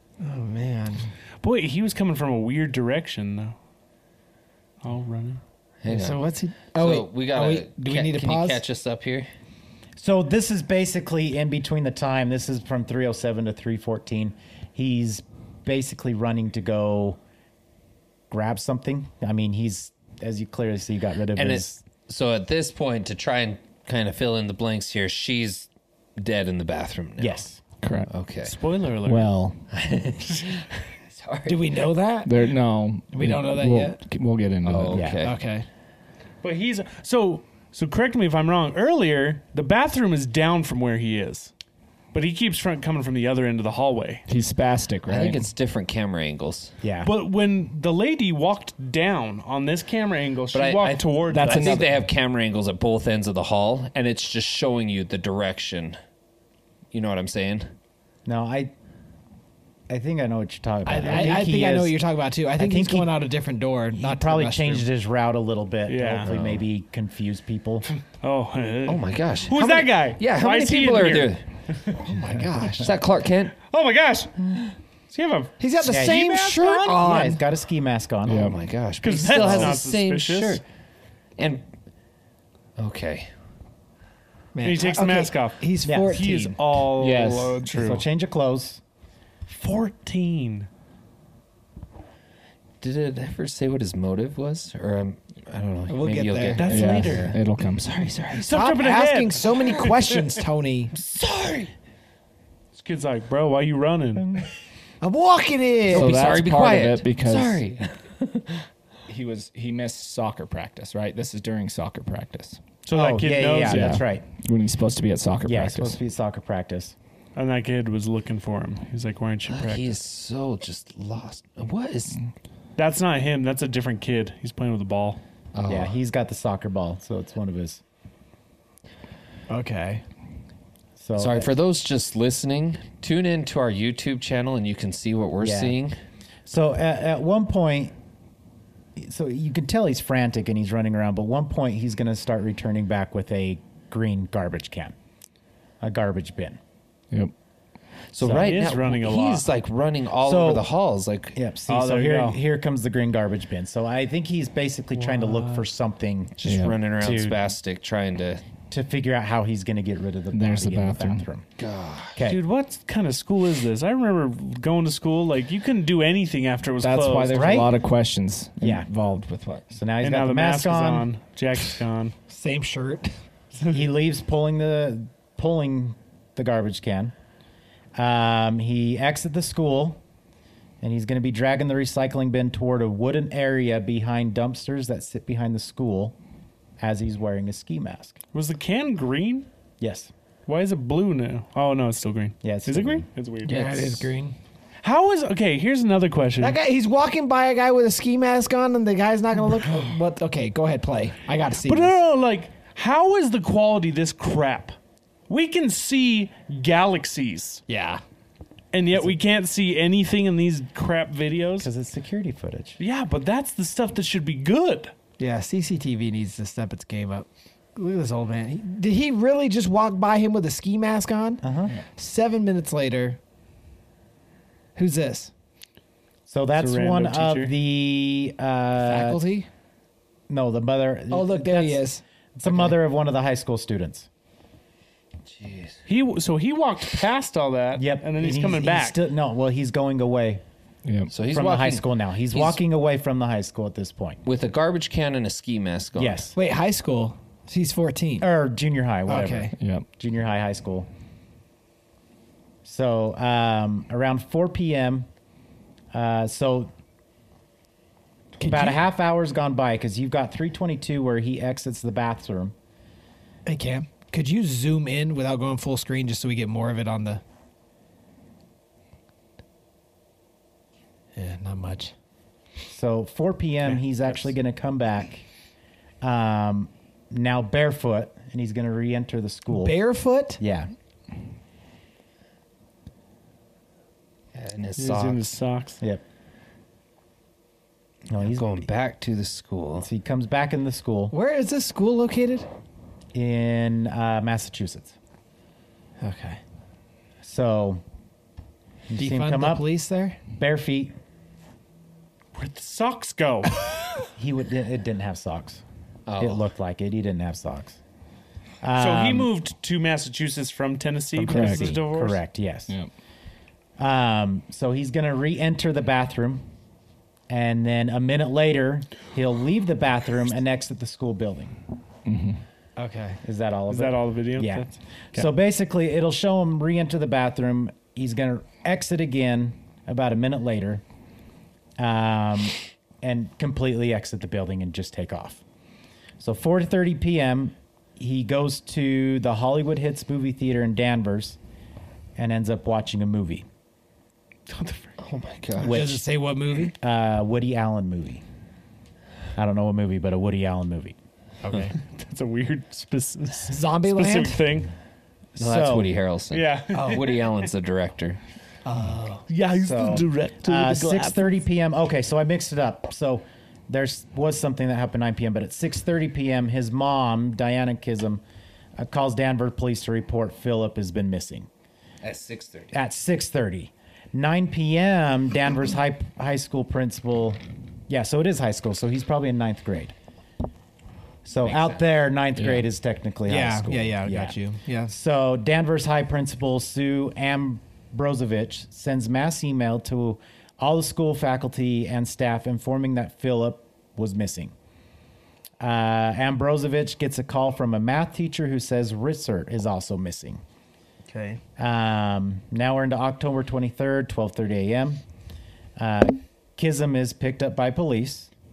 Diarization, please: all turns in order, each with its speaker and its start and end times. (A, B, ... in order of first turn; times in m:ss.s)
0:00.2-0:01.1 A
0:01.4-0:03.6 B
0:04.8-0:05.4 B
0:05.8-0:09.3 C
0:05.9-0:08.6 A
0:10.0-0:17.2 D
0:18.3-0:21.8 D
0:21.4-0:27.4 C
0:27.2-0:27.6 D
0:27.8-0:28.1 E
0:28.1-0:28.5 C
0:28.4-0:29.3 B
0:29.0-0:29.6 E
0:29.7-0:31.7 C
0:31.5-0:32.4 A
0:32.2-0:35.2 E
0:33.1-0:34.0 A
0:34.6-0:35.4 C
0:34.9-0:35.2 D
0:35.2-0:35.7 A
0:36.4-0:41.5 B
0:42.1-0:44.2 B
0:44.3-0:45.4 E
0:45.1-0:46.8 C
0:46.8-0:47.1 D
0:47.0-0:51.8 B
0:50.5-0:56.0 C
0:51.3-0:52.0 E
0:56.9-0:57.7 C
0:58.3-0:58.7 D
0:59.9-1:02.0 D
1:00.8-1:04.9 A
1:02.6-1:03.2 D
1:04.0-1:07.9 D
1:05.9-1:06.3 B
1:06.3-1:06.6 C
1:08.2-1:11.3 B
1:08.9-1:11.4 C
1:12.0-1:12.9 A
1:12.5-1:13.6 C
1:13.6-1:17.0 B
1:15.6-1:17.4 A
1:15.9-1:16.2 D
1:16.9-1:18.5 D
1:18.3-1:18.6 E
1:18.3-1:20.6 C
1:19.0-1:20.6 B
1:19.4-1:19.8 D
1:21.4-1:21.7 C
1:22.8-1:23.3 C
1:24.5-1:26.6 A
1:24.6-1:28.0 B
1:25.8-1:26.2 D
1:27.0-1:27.9 E
1:27.7-1:28.8 D
1:29.5-1:30.7 B
1:32.8-1:38.4 C
1:35.9-1:36.8 A
1:36.6-1:37.4 B
1:36.7-1:38.2 E
1:38.4-1:40.2 B
1:38.5-1:41.0 A
1:41.0-1:41.7 C
1:42.7-1:44.4 B
1:45.0-1:46.2 A
1:45.9-1:48.6 C
1:45.9-1:47.6 E
1:49.1-1:52.6 E
1:52.8-1:54.1 B
1:52.9-1:54.2 D
1:53.6-1:56.0 E
1:55.4-1:57.0 D
1:57.4-2:00.0 B
1:59.5-2:02.2 C
2:02.8-2:05.2 B
2:05.6-2:06.0 C
2:05.7-2:07.8 D
2:09.5-2:10.0 A
2:11.0-2:11.5 D
2:11.2-2:16.0 C
2:15.4-2:15.8 D
2:16.5-2:17.9 D
2:19.0-2:25.0 D
2:25.8-2:26.6 D
2:28.1-2:31.4 C
2:28.2-2:28.5 D
2:28.2-2:29.5 B
2:30.2-2:30.7 D
2:31.4-2:36.4 D
2:31.7-2:32.4 B
2:34.9-2:35.7 B
2:36.4-2:38.4 C
2:36.4-2:36.8 E
2:37.0-2:37.5 D
2:38.7-2:41.5 D
2:40.3-2:41.3 E
2:41.6-2:42.2 C
2:42.2-2:47.5 B
2:46.8-2:49.7 E
2:47.3-2:47.7 D
2:48.6-2:48.9 D
2:49.7-2:51.1 D
2:50.0-2:52.2 B
2:52.3-2:53.1 A
2:53.7-2:57.1 D
2:58.0-3:00.0 D
3:00.8-3:06.2 D
3:06.8-3:08.2 D
3:08.3-3:09.5 B
3:09.8-3:10.1 D
3:10.5-3:14.1 B
3:12.4-3:13.1 D
3:13.4-3:14.4 A
3:14.8-3:16.6 B
3:16.4-3:22.0 A
3:21.6-3:24.8 B
3:25.3-3:27.6 B
3:27.7-3:28.0 A
3:28.7-3:31.7 B
3:31.6-3:32.8 D
3:32.8-3:34.9 B
3:35.2-3:41.4 A
3:41.4-3:41.8 D
3:42.0-3:43.2 A
3:44.8-3:45.3 A
3:46.3-3:49.2 D
3:46.6-3:47.5 B
3:48.8-3:49.5 A
3:50.3-3:51.8 D
3:51.1-3:52.8 A
3:52.4-3:54.1 D
3:55.3-3:55.8 C
3:55.9-3:59.0 B
3:57.8-4:00.4 D
4:00.8-4:01.1 E
4:01.1-4:02.6 C
4:01.3-4:04.2 D
4:04.2-4:06.3 C
4:06.0-4:06.4 D
4:06.3-4:08.3 A
4:08.2-4:10.9 D
4:09.1-4:09.5 A
4:09.6-4:09.8 E
4:12.6-4:15.1 D
4:15.9-4:16.7 D
4:18.4-4:18.8 A
4:18.4-4:22.5 D
4:23.5-4:27.2 A
4:31.2-4:31.9 A
4:32.7-4:35.3 D
4:36.0-4:39.8 D
4:39.5-4:40.4 A
4:40.4-4:40.7 D
4:44.3-4:45.3 C
4:44.8-4:45.8 B
4:48.1-4:48.6 D
4:48.2-4:49.9 C
4:49.8-4:51.1 D
4:51.1-4:52.5 A
4:53.1-4:54.9 D
4:56.0-4:56.4 A
4:57.2-4:57.8 D
4:58.9-4:59.7 D
4:59.0-5:00.2 A
5:00.4-5:01.0 D
5:02.4-5:03.6 B
5:04.2-5:05.6 D
5:06.1-5:06.5 C
5:06.2-5:07.8 D
5:08.6-5:09.3 D
5:08.8-5:12.2 B
5:11.2-5:12.7 D
5:11.3-5:11.8 E
5:13.8-5:16.5 D
5:17.3-5:21.6 D
5:22.0-5:22.4 E
5:22.8-5:23.2 A
5:23.2-5:30.8 D
5:23.7-5:25.3 B
5:31.8-5:35.4 D
5:36.2-5:41.4 D
5:42.2-5:43.5 D
5:44.5-5:44.8 B
5:45.0-5:45.9 C
5:45.6-5:46.8 A
5:45.6-5:46.0 D
5:46.8-5:48.2 D
5:49.4-5:51.0 D
5:51.4-5:51.8 A
5:51.8-5:54.7 B
5:53.5-5:54.4 A
5:55.4-5:55.9 D
5:55.4-5:58.2 C
5:56.3-5:57.3 B
5:56.7-5:57.1 A
5:58.6-5:59.2 A
5:59.3-6:01.3 B
5:59.6-6:08.2 D
6:08.8-6:11.5 D
6:12.0-6:12.7 C
6:12.7-6:19.9 D
6:21.2-6:24.4 D
6:21.5-6:21.8 C
6:22.4-6:22.7 E
6:23.3-6:24.9 A
6:24.9-6:34.5 D
6:35.6-6:40.4 D
6:41.1-6:41.4 A
6:41.6-6:45.0 D
6:45.8-6:48.3 D